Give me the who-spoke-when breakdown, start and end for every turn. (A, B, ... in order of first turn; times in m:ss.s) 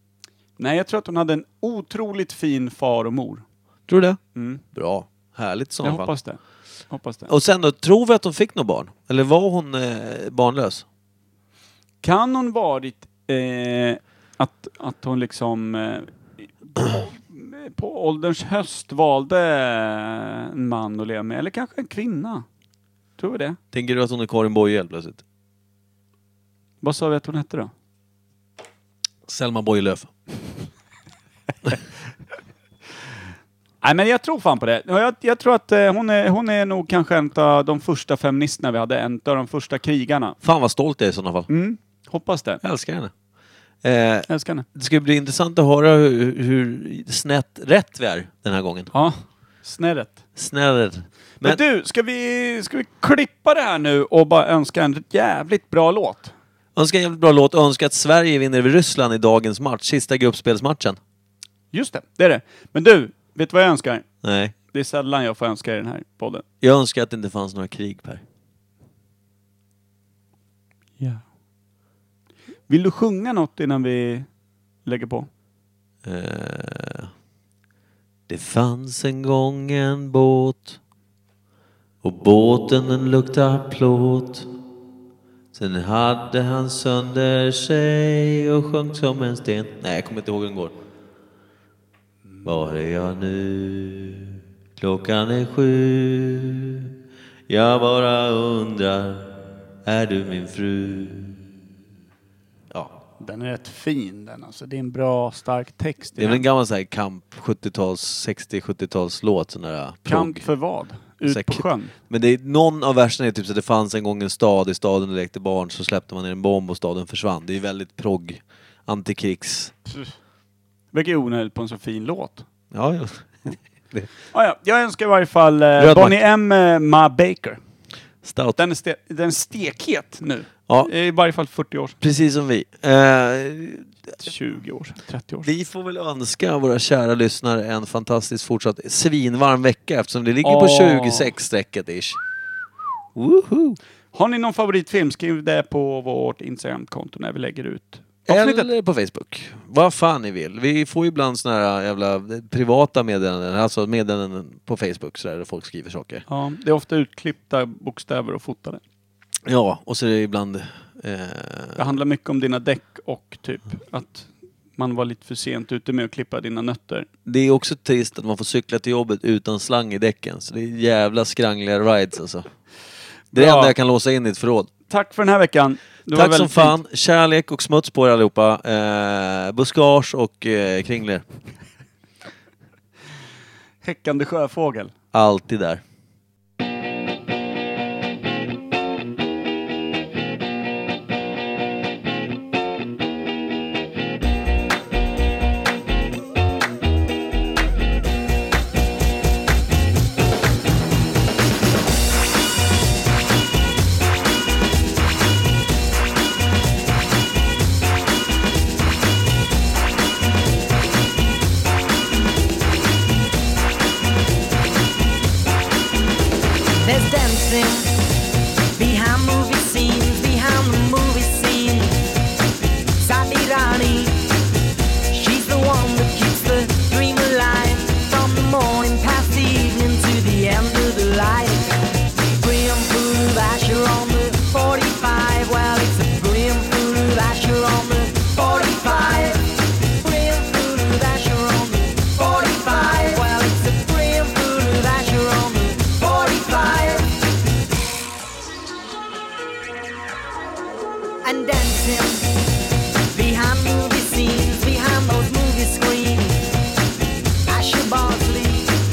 0:00.6-0:03.4 A
0:03.9-0:04.2 B
0:04.4-0:04.6 A
0:04.7-0:06.1 B
0:05.8-0:06.4 A
0:06.9-0:07.3 A
0:07.3-0:10.8 B
0:12.0-0:22.5 A
0:23.2-0:23.6 A
0:23.7-0:25.2 B
0:26.8-0:27.7 A
0:29.3-0:30.1 B
0:33.8-0:40.4 A
0:40.4-0:41.5 B
0:41.5-0:42.6 A
0:42.6-0:43.1 B
0:43.8-0:48.9 B
0:44.3-0:44.7 A
0:48.9-0:50.2 A
0:50.4-0:51.6 B
0:51.4-0:56.3 A
0:56.8-1:01.0 B
1:01.7-1:04.1 A
1:04.2-1:04.5 B
1:04.7-1:06.4 A
1:06.6-1:08.2 B
1:12.7-1:14.3 A
1:14.8-1:15.3 A
1:16.0-1:17.1 B
1:18.3-1:20.8 B
1:22.0-1:24.5 B
1:25.5-1:30.7 B
1:32.4-1:36.9 B
1:37.5-1:39.3 B
1:39.8-1:41.4 B
1:43.2-1:46.4 A
1:46.2-1:50.4 B
1:50.0-1:51.9 A
1:51.2-1:59.7 B
1:59.9-2:00.1 A
2:00.9-2:02.5 A
2:02.7-2:04.1 B
2:04.3-2:07.6 A
2:05.8-2:06.2 B
2:08.2-2:08.6 B
2:08.6-2:12.0 A
2:12.0-2:13.9 B
2:14.2-2:15.5 A
2:15.4-2:22.2 B
2:20.4-2:21.3 A
2:23.2-2:23.8 B
2:24.1-2:28.7 A
2:28.3-2:36.3 B
2:36.3-2:38.8 A
2:39.5-2:41.9 B
2:41.8-2:47.1 A
2:47.3-2:52.5 B
2:53.3-2:53.8 A
2:53.3-2:54.7 B
2:54.9-2:56.8 A
2:56.1-3:01.2 B
3:03.8-3:04.9 A
3:05.1-3:05.8 B
3:36.8-3:37.9 C
3:38.8-3:42.0 C
3:43.0-3:44.2 C
3:45.1-4:07.1 C
4:11.2-4:12.3 C
4:13.1-4:16.4 C
4:17.5-4:18.7 C